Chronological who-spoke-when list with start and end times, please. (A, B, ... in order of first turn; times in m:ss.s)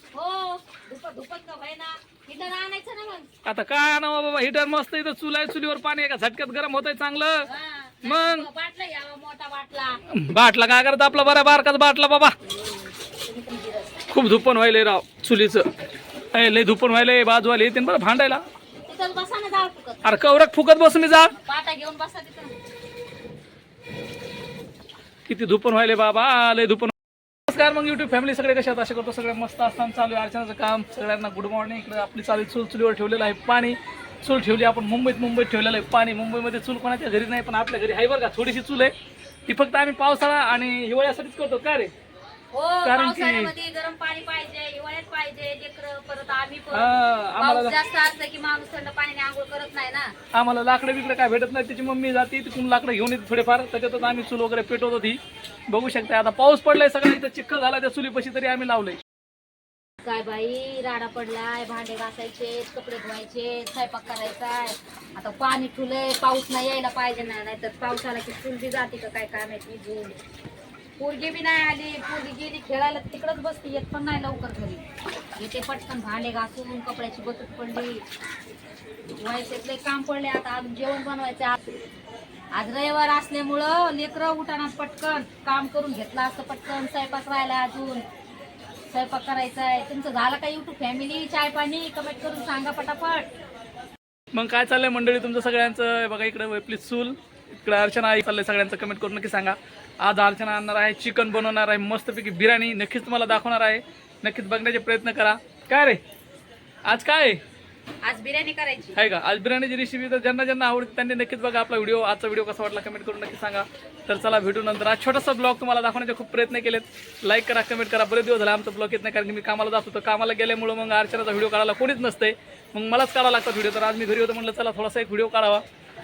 0:00.1-0:03.3 A
0:03.4-0:07.5 B
0:07.5-0:10.0 A
0:08.0-0:08.5 B
0:10.1-0:12.4 B
0:12.4-0:14.0 A
0:14.1-0:15.7 B
0:16.3-0:18.4 B
0:18.9-0:20.0 A
0:20.0-0:21.3 B
0:21.3-0:22.5 A
0:25.3-0:27.0 B
0:27.5-0:38.9 B
0:39.5-0:41.9 B
0:42.5-0:50.1 A
0:42.8-0:43.5 B
0:46.7-0:47.8 B
0:50.3-0:59.0 B
1:00.0-1:10.2 A
1:11.0-1:14.8 A
1:15.4-1:18.0 A
1:19.2-1:21.8 A
1:22.5-1:28.0 A
1:28.9-1:33.3 A
1:34.3-1:46.0 B
1:46.8-1:47.4 B
1:48.0-1:49.0 A
1:49.0-2:05.6 B